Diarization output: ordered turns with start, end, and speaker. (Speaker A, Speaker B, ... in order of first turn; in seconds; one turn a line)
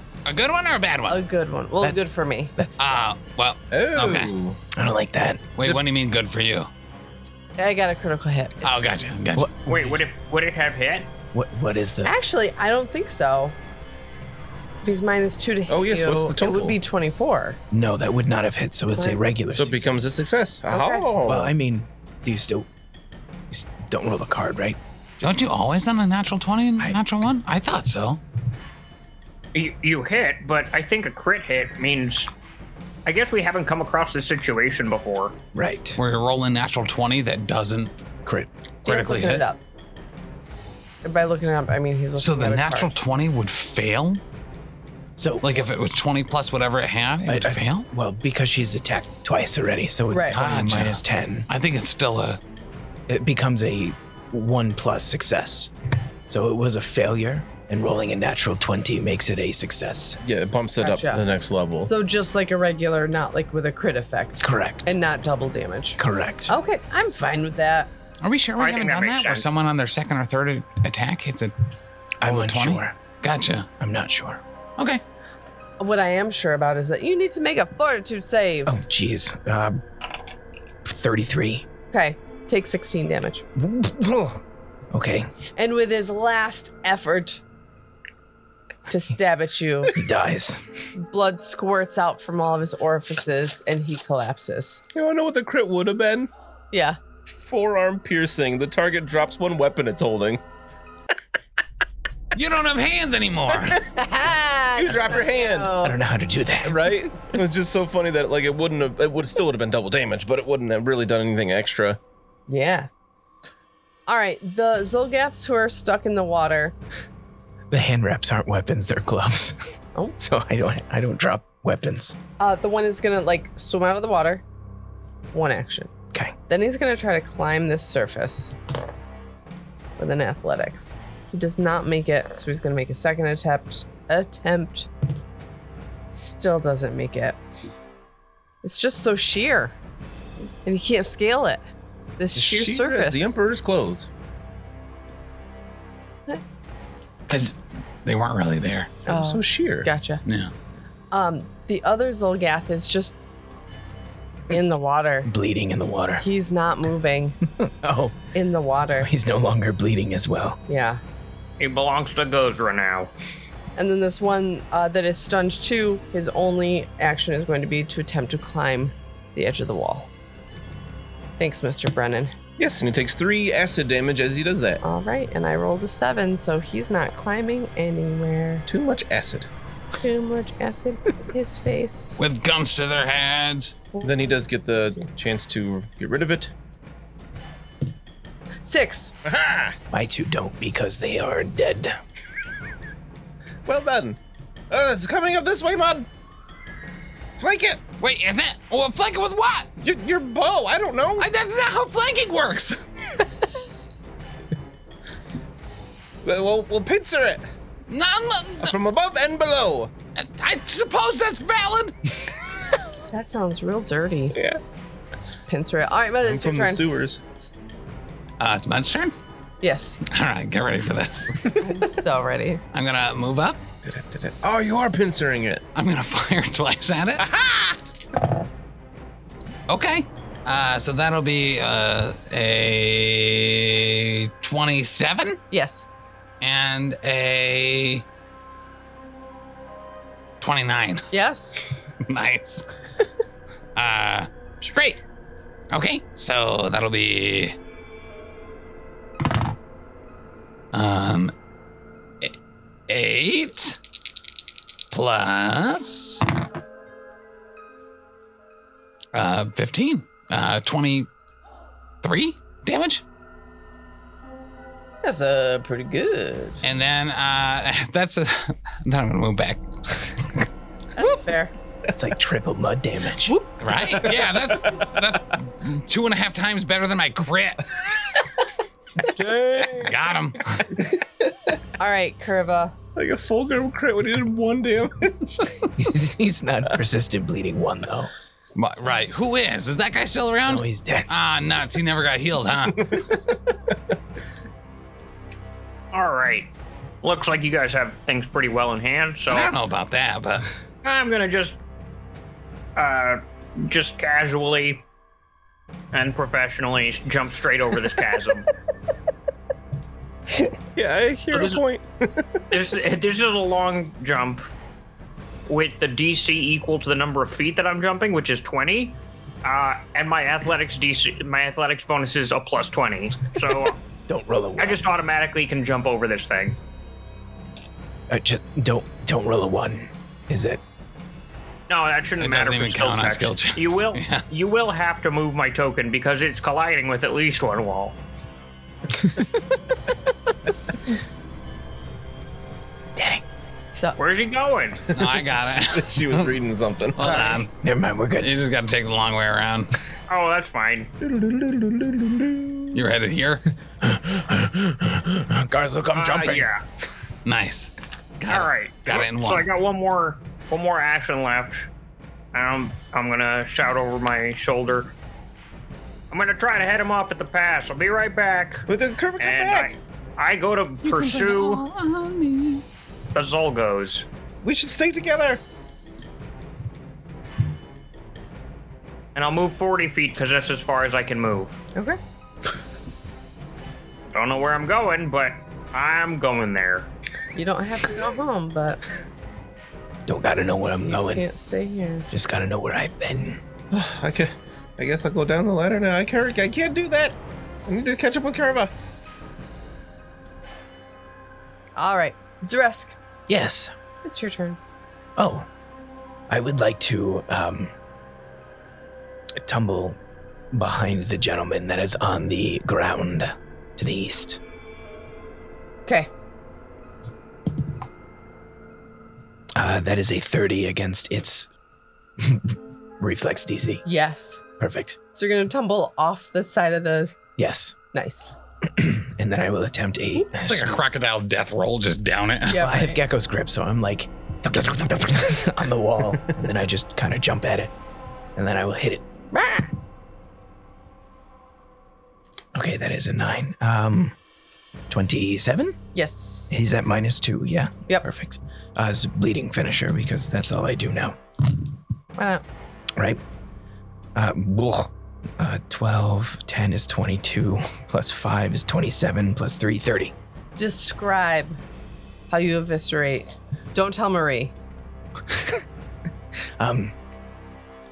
Speaker A: 0.2-1.2
Speaker B: 1.1-2.5
Speaker C: 2.5-2.9
Speaker A: 2.8-4.3
Speaker D: 3.7-4.6
Speaker C: 4.7-5.5
Speaker A: 5.5-6.7
Speaker B: 7.6-8.7
Speaker A: 8.6-9.9
Speaker C: 9.3-9.8
Speaker E: 9.7-11.1
Speaker C: 11.3-12.1
Speaker B: 12.0-13.6
Speaker B: 14.8-17.6
Speaker D: 15.7-16.8
Speaker C: 17.7-20.1
Speaker D: 19.5-21.5
Speaker B: 20.7-21.1
Speaker C: 21.2-22.7
Speaker C: 23.5-24.8
Speaker A: 25.2-28.2
Speaker E: 29.5-32.3
Speaker E: 33.0-35.4
Speaker C: 35.5-36.0
Speaker A: 36.0-37.9
Speaker C: 38.2-38.5
Speaker A: 38.8-39.4
Speaker B: 38.8-39.6
Speaker B: 41.0-42.9
Speaker A: 42.2-44.2
Speaker C: 45.2-45.6
Speaker A: 45.4-47.9
Speaker C: 47.2-51.5
Speaker B: 50.1-50.4
Speaker A: 50.3-52.4
Speaker C: 53.1-55.7
Speaker C: 56.3-60.2
Speaker D: 60.2-61.9
Speaker B: 60.8-61.2
Speaker B: 61.8-67.9
Speaker C: 64.4-64.9
Speaker C: 66.0-66.5
Speaker A: 68.2-71.5
Speaker E: 68.6-69.5
Speaker C: 72.2-73.0
Speaker A: 72.2-73.7
Speaker C: 73.8-74.4
Speaker B: 75.8-78.7
Speaker C: 78.6-79.8
Speaker C: 80.8-81.7
Speaker B: 81.9-83.4
Speaker C: 83.5-85.3
Speaker B: 85.6-87.4
Speaker B: 88.9-89.9
Speaker C: 89.9-90.9
Speaker B: 90.9-94.8
Speaker D: 94.9-96.3
Speaker B: 96.7-97.0
Speaker D: 97.3-100.4
Speaker A: 102.3-103.8
Speaker B: 103.9-106.0
Speaker D: 104.8-105.7
Speaker C: 105.8-107.0
Speaker D: 106.6-112.0
Speaker B: 112.5-112.9
Speaker B: 114.1-116.7
Speaker C: 117.7-119.6
Speaker C: 120.2-122.2
Speaker B: 122.4-124.4
Speaker B: 125.3-125.9
Speaker B: 126.5-128.5
Speaker B: 130.0-134.9
Speaker B: 136.1-137.4
Speaker B: 138.6-139.8
Speaker B: 140.6-141.6
Speaker B: 142.2-143.4
Speaker D: 142.3-144.1
Speaker A: 147.3-148.9
Speaker B: 149.1-150.2
Speaker D: 149.1-149.9
Speaker A: 150.2-150.5
Speaker B: 151.1-153.1
Speaker B: 154.5-155.3
Speaker C: 155.2-156.2
Speaker B: 156.2-157.4
Speaker C: 157.6-158.2
Speaker B: 158.3-159.1
Speaker C: 159.0-160.6
Speaker B: 160.7-161.0
Speaker E: 161.6-163.1
Speaker B: 163.8-170.1
Speaker B: 171.4-172.3
Speaker D: 172.6-174.8
Speaker B: 174.8-178.7
Speaker D: 178.7-179.5
Speaker B: 179.9-182.2
Speaker A: 182.2-183.8
Speaker B: 183.9-184.3
Speaker D: 184.0-186.5
Speaker B: 188.6-189.1
Speaker D: 189.2-189.8
Speaker C: 189.9-192.0
Speaker D: 193.7-194.2
Speaker D: 194.7-196.1
Speaker D: 197.4-197.8
Speaker A: 198.0-199.7
Speaker D: 199.8-201.3
Speaker A: 201.2-203.2
Speaker D: 206.2-207.4
Speaker A: 207.9-208.7
Speaker D: 208.6-209.9
Speaker A: 210.2-211.9
Speaker B: 213.1-214.4
Speaker D: 214.3-214.6
Speaker B: 215.3-216.8
Speaker D: 216.2-217.2
Speaker A: 218.4-219.1
Speaker B: 219.6-220.0
Speaker A: 220.1-221.8
Speaker B: 221.6-222.6
Speaker A: 222.7-223.6
Speaker D: 223.8-225.6
Speaker A: 225.7-227.8
Speaker A: 229.7-235.4
Speaker B: 235.5-235.9
Speaker A: 236.4-238.0
Speaker A: 240.4-241.1
Speaker B: 241.1-241.6
Speaker A: 242.0-242.8
Speaker A: 243.8-245.0
Speaker A: 245.7-247.5
Speaker A: 250.7-251.3
Speaker A: 252.9-253.8
Speaker A: 254.9-256.3
Speaker A: 259.1-261.1
Speaker A: 262.0-263.0
Speaker B: 265.0-266.6
Speaker A: 266.6-270.3
Speaker B: 270.9-271.5
Speaker C: 271.9-273.4
Speaker A: 273.6-277.8
Speaker D: 274.0-274.9
Speaker D: 279.1-279.9
Speaker A: 279.8-280.8
Speaker B: 281.8-282.7
Speaker D: 282.9-285.5
Speaker C: 285.8-288.1
Speaker A: 288.5-293.0
Speaker C: 290.4-291.1
Speaker E: 295.9-296.5
Speaker E: 297.0-299.5
Speaker A: 299.3-300.5
Speaker E: 300.8-301.6
Speaker E: 302.8-304.9
Speaker E: 305.9-308.4
Speaker D: 310.4-312.4
Speaker E: 311.3-311.6
Speaker E: 312.5-314.5
Speaker E: 315.4-323.8
Speaker C: 324.1-324.8
Speaker E: 324.6-326.6
Speaker C: 328.1-330.6
Speaker E: 331.7-338.0
Speaker A: 332.2-334.2
Speaker C: 342.9-343.2
Speaker E: 344.0-344.9
Speaker A: 344.9-346.4
Speaker D: 344.9-347.3
Speaker A: 347.0-347.5
Speaker B: 347.0-347.4
Speaker C: 347.6-348.3
Speaker A: 348.2-349.7
Speaker E: 350.1-350.9
Speaker D: 351.0-352.7
Speaker A: 352.7-353.5
Speaker C: 353.8-356.5
Speaker E: 355.9-356.6
Speaker A: 357.2-359.5
Speaker E: 358.3-361.7
Speaker E: 362.3-364.9
Speaker E: 366.1-368.6
Speaker D: 368.7-369.7
Speaker E: 369.2-371.6
Speaker A: 370.8-372.6
Speaker E: 373.1-374.1
Speaker D: 374.4-375.4
Speaker E: 379.1-381.6
Speaker E: 384.1-386.9
Speaker B: 387.3-388.8
Speaker C: 390.1-391.2
Speaker B: 390.9-392.1
Speaker C: 392.1-393.4
Speaker D: 393.7-398.7
Speaker B: 401.8-403.0
Speaker C: 403.3-403.7
Speaker B: 404.0-404.6
Speaker C: 405.2-405.4
Speaker C: 406.3-407.7
Speaker C: 409.3-410.0
Speaker C: 410.5-414.4
Speaker C: 419.5-421.5
Speaker C: 422.2-423.8
Speaker B: 423.8-424.4
Speaker C: 424.6-425.0
Speaker B: 425.1-427.1
Speaker C: 427.4-427.8
Speaker B: 427.9-428.3
Speaker C: 428.6-430.8
Speaker A: 430.4-432.7
Speaker B: 432.5-433.0
Speaker C: 432.6-437.7
Speaker C: 438.3-439.1
Speaker B: 439.3-439.7
Speaker C: 442.5-444.1
Speaker C: 444.9-445.8
Speaker B: 445.9-446.5
Speaker C: 446.5-451.2
Speaker B: 452.1-452.4
Speaker C: 452.9-453.2
Speaker C: 454.1-460.1
Speaker B: 460.6-461.6
Speaker B: 462.3-464.5
Speaker C: 465.3-465.6
Speaker C: 466.6-466.9